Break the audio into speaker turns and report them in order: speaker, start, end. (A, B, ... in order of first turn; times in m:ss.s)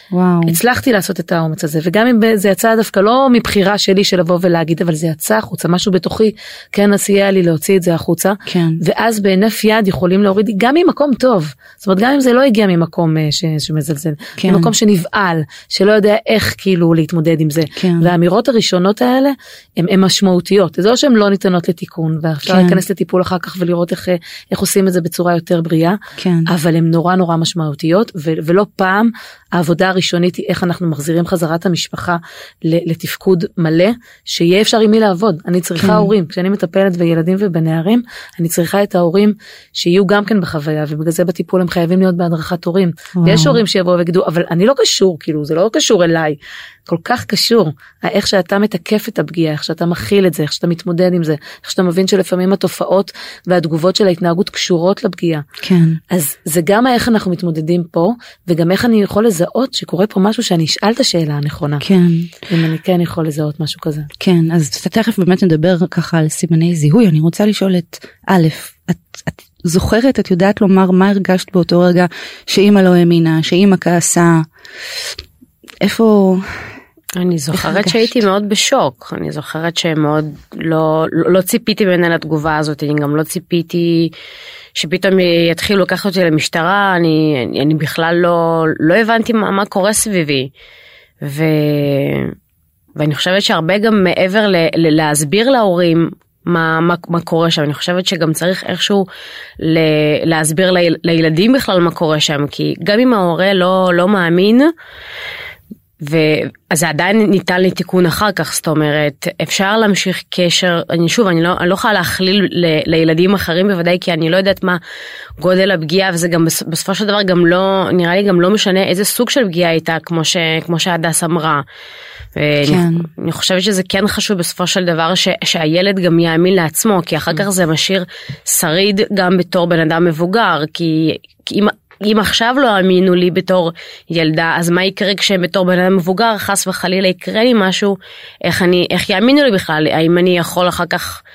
0:00.1-0:00.6 A
0:00.4-0:55.4 B
0:08.4-0:08.8 A
0:14.4-0:14.7 A
0:17.8-0:18.1 A
0:22.4-0:22.8 A
0:26.2-0:26.5 A
0:35.8-0:36.1 A
0:43.2-0:43.6 A
0:55.6-0:56.0 A
0:56.1-1:01.8 B
1:01.8-1:02.3 A
1:02.5-1:04.1 B
1:04.2-1:14.4 A
1:15.8-1:16.7 A
1:17.2-1:24.1 C
1:17.5-1:18.2 A
1:24.7-1:30.5 C
1:31.2-1:32.3 C
1:33.0-1:39.0 C
1:39.6-1:44.7 C
1:46.0-1:54.8 C
1:55.4-2:01.6 C
2:02.4-2:21.2 C
2:02.6-2:03.1 A